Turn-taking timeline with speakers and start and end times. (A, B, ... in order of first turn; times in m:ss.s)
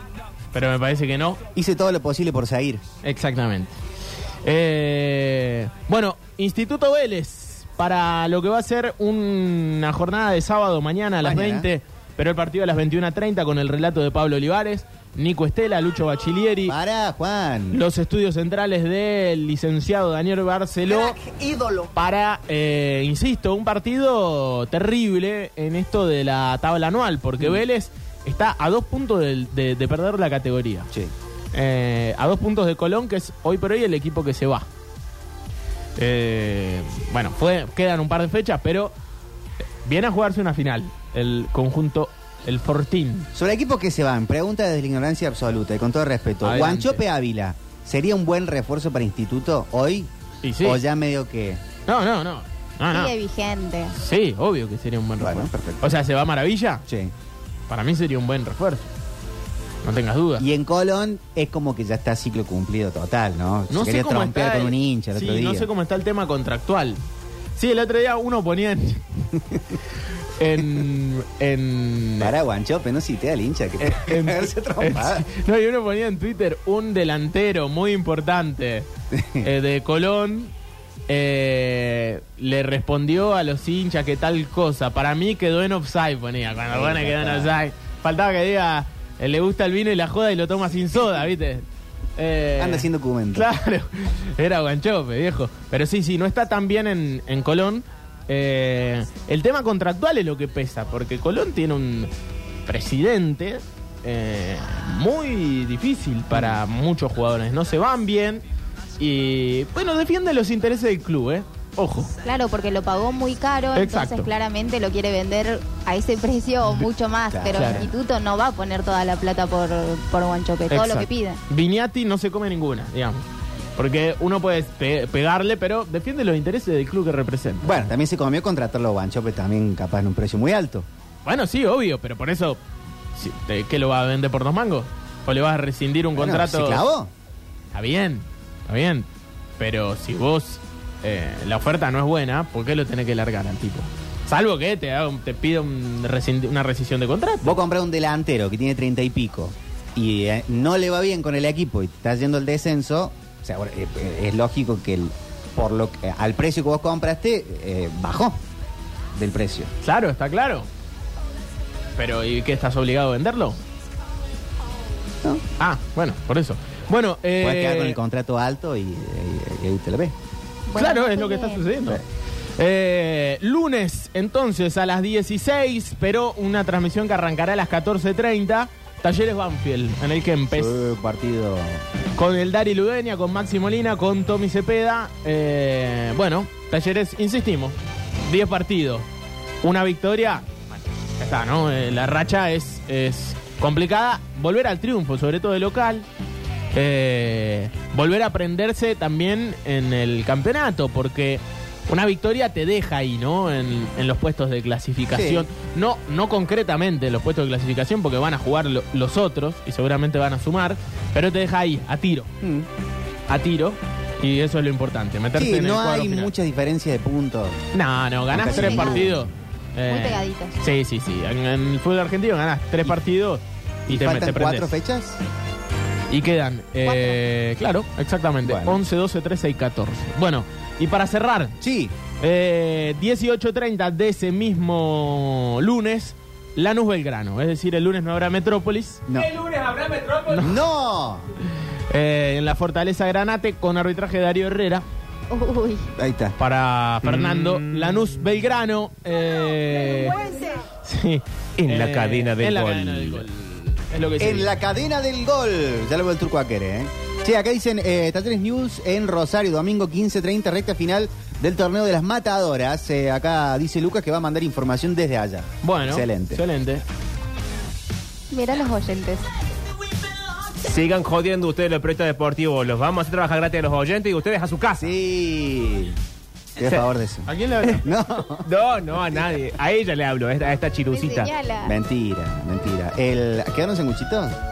0:00.5-0:01.4 A
0:01.5-0:02.8 B
0:03.0-0:03.7 A
0:04.4-0:16.8 A
0:11.2-0:11.7 B
0:16.6-0:17.8 B
0:17.7-0:21.2 A
0:20.8-0:21.9 B
0:21.9-0:30.9 A
0:31.5-0:34.7 A
0:36.0-0:38.9 A
0:39.8-0:43.2 A
0:43.3-0:50.1 B
0:46.4-0:47.0 A
0:50.4-0:50.8 A
0:50.6-0:51.6 B
0:51.8-0:53.1 A
0:52.9-0:54.0 C
0:53.9-0:56.8 A
0:55.2-0:55.8 B
0:56.9-0:57.1 B
0:57.7-0:58.9 A
0:59.8-1:00.5 A
1:00.4-1:05.7 B
1:03.7-1:07.0 A
1:07.6-1:09.0 A
1:10.4-1:12.3 A
1:12.2-1:15.2 B
1:13.8-1:18.9 A
1:19.1-1:19.5 B
1:19.4-1:20.5 A
1:21.1-1:31.6 A
1:26.7-1:27.6 B
1:32.2-1:42.1 A
1:32.6-1:33.5 B
1:42.6-1:48.4 A
1:46.3-1:46.6 B
1:49.0-1:52.1 A
1:52.2-2:01.4 C
1:53.7-1:54.3 A
1:57.3-1:57.9 B
1:57.5-1:57.8 A
2:00.7-2:03.2 A
2:03.8-2:07.9 A
2:07.6-2:10.8 B
2:11.2-2:12.6 A
2:13.1-2:16.8 A
2:16.1-2:17.1 B
2:17.7-2:19.1 A
2:19.6-2:27.6 A
2:27.4-2:38.4 B
2:39.2-2:39.7 B
2:39.8-2:40.7 A
2:42.0-2:43.6 A
2:45.6-2:48.0 A
2:47.4-2:50.1 B
2:50.7-2:51.8 C
2:50.7-2:52.0 A
2:52.6-3:01.0 A
3:00.5-3:01.8 B
3:02.2-3:09.0 A
3:09.6-3:10.4 A
3:11.2-3:16.0 A
3:16.7-3:32.3 A
3:25.1-3:25.5 B
3:32.4-3:32.7 B
3:33.3-3:36.3 A
3:35.3-3:37.6 B
3:37.7-3:44.8 A
3:38.3-3:39.2 B
3:38.4-3:39.1 C
3:39.8-3:40.6 C
3:43.9-3:45.2 B
3:46.1-3:51.6 A
3:46.8-3:47.2 C
3:48.4-3:48.8 B
3:51.6-3:51.9 B
3:52.2-3:59.1 A
3:59.1-3:59.3 B
3:59.2-4:00.3 D
4:00.2-4:00.6 A
4:00.3-4:01.3 B
4:01.9-4:04.8 A
4:05.3-4:05.9 C
4:06.0-4:06.3 B
4:06.4-4:10.2 A
4:10.8-4:14.6 A
4:11.6-4:13.2 D
4:14.2-4:26.4 B
4:25.6-4:26.8 A
4:28.3-4:29.2 C
4:30.6-4:34.9 D
4:34.8-4:36.0 B
4:36.6-4:37.3 B
4:37.3-4:37.8 A
4:37.8-4:38.5 B
4:38.4-4:41.3 D
4:40.9-4:41.8 C
4:41.6-4:44.4 B